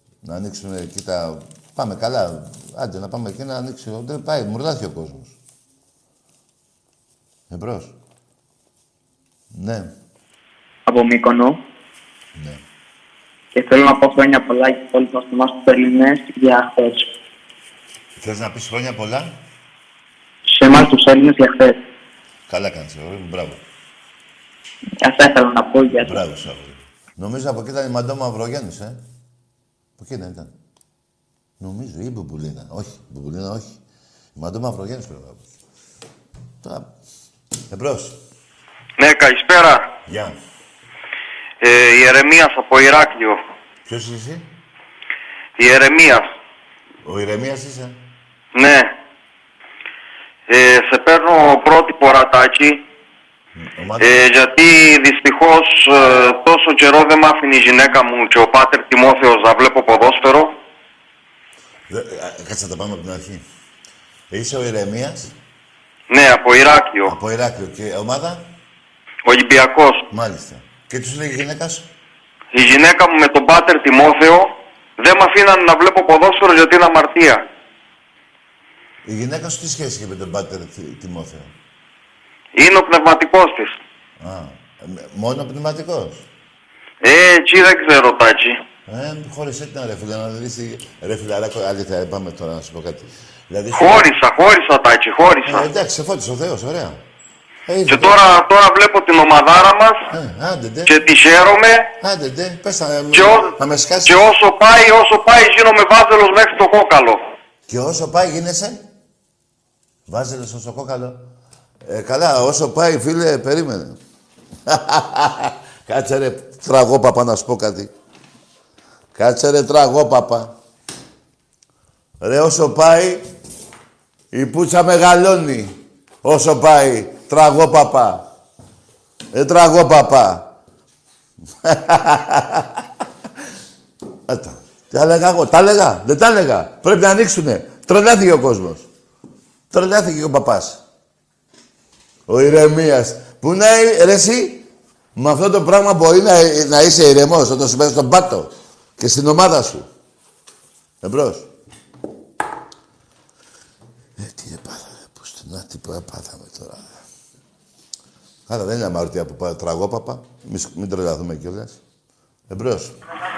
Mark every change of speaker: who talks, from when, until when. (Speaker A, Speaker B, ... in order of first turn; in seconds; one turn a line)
Speaker A: 0.2-5.4
Speaker A: 7.5-7.9
Speaker A: 9.5-9.9
Speaker B: 10.8-11.6
Speaker A: 12.3-12.6
Speaker B: 13.5-17.1
Speaker A: 18.2-19.4
Speaker B: 20.5-21.8
Speaker A: 22.5-23.6
Speaker B: 25.0-26.2
Speaker A: 25.9-29.0
Speaker A: 30.0-30.5
Speaker A: 31.6-33.8
Speaker A: 34.3-35.5
Speaker A: 36.6-36.9
Speaker A: 37.7-38.2
Speaker C: 39.0-39.9
Speaker A: 40.0-40.4
Speaker C: 41.6-43.4
Speaker A: 43.9-44.5
Speaker C: 45.6-46.2
Speaker A: 47.0-48.0
Speaker C: 48.5-48.9
Speaker C: 50.5-52.8
Speaker A: 53.5-54.2
Speaker C: 54.0-60.5
Speaker A: 61.9-63.4
Speaker A: 64.3-65.3
Speaker C: 66.1-67.1
Speaker A: 67.0-68.5
Speaker C: 69.2-70.0
Speaker A: 70.1-71.9
Speaker C: 72.5-77.4
Speaker A: 79.0-81.5
Speaker C: 82.5-83.7
Speaker A: 84.2-86.3
Speaker C: 87.0-88.6
Speaker A: 88.9-94.1
Speaker C: 93.7-95.7
Speaker A: 95.4-97.0
Speaker A: 97.7-98.2
Speaker C: 97.9-100.0
Speaker A: 100.1-100.9
Speaker C: 100.9-101.9
Speaker A: 102.0-104.2
Speaker C: 103.1-103.5
Speaker C: 104.0-107.2
Speaker A: 107.7-108.8
Speaker A: 110.1-111.2
Speaker A: 111.8-114.0
Speaker A: 114.7-117.9
Speaker A: 119.1-120.5
Speaker A: 122.2-123.2
Speaker A: 124.3-128.2
Speaker A: 129.3-130.5
Speaker A: 131.6-132.8
Speaker A: 134.3-138.9
Speaker A: 139.7-140.8
Speaker A: 142.3-149.9
Speaker A: 151.0-151.5
Speaker A: 154.2-157.0
Speaker A: 158.5-161.8
Speaker A: 162.5-162.9